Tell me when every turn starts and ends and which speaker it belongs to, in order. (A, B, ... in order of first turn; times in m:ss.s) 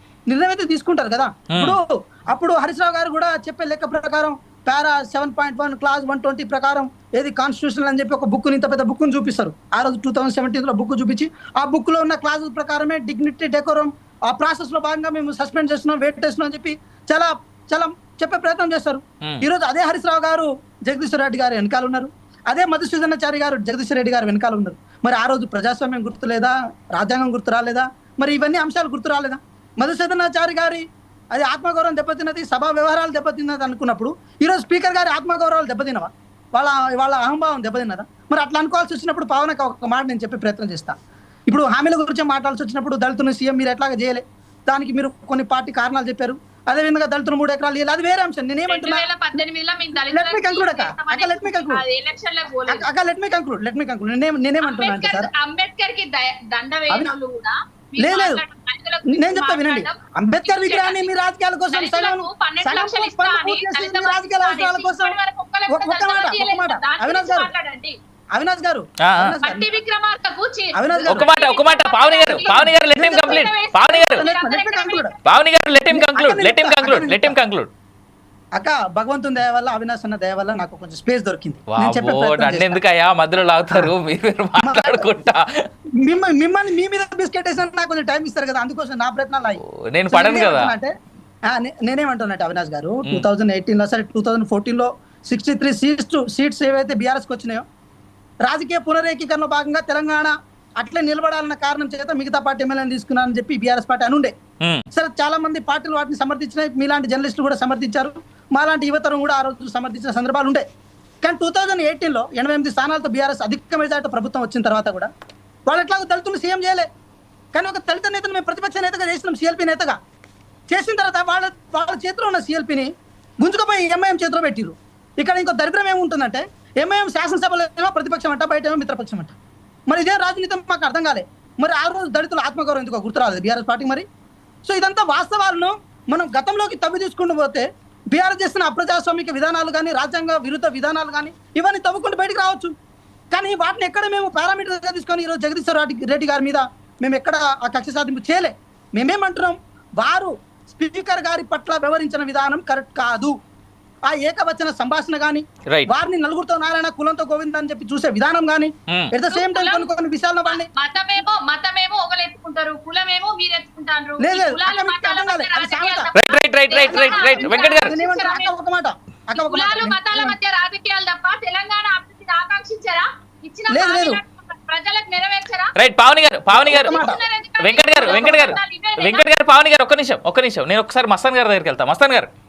0:00.3-0:41.0 A
0:01.5-0:01.8 B
0:41.5-0:49.4 A
0:48.7-0:52.8 C
0:50.1-0:51.8 A
0:52.7-0:55.3 A
0:54.6-1:01.2 C
0:58.0-0:58.4 A
0:59.1-1:05.2 A
1:01.7-1:07.9 C
1:05.7-1:07.5 A
1:08.3-1:09.7 A
1:09.0-1:09.3 B
1:09.4-1:15.1 C
1:10.7-1:11.3 A
1:11.0-1:14.3 B
1:12.3-1:13.4 A
1:14.1-1:15.1 A
1:15.2-1:17.7 B
1:15.9-1:17.4 A
1:18.5-1:22.8 A
1:21.7-1:25.6 B
1:24.6-1:25.1 A
1:26.0-1:30.9 A
1:29.6-1:30.7 B
1:31.5-1:37.6 A
1:33.0-1:33.3 B
1:38.4-1:44.3 A
1:44.6-1:44.8 B
1:44.9-1:50.6 A
1:51.2-1:55.1 A
1:55.7-1:56.9 A
1:57.5-2:00.0 A
2:00.7-2:02.9 A
2:03.4-2:09.3 A
2:09.9-2:14.0 A
2:14.6-2:22.7 A
2:23.3-2:33.4 A
2:34.1-2:40.7 A
2:38.9-2:39.2 B
2:39.2-2:39.9 C
2:40.4-2:48.5 C
2:44.2-2:46.1 A
2:46.2-2:48.0 B
2:46.8-2:50.4 A
2:49.3-2:55.7 C
2:53.7-2:54.2 A
2:55.8-2:57.0 B
2:56.5-2:57.2 A
2:56.7-2:59.3 C
2:57.6-3:02.3 B
2:58.0-2:58.6 A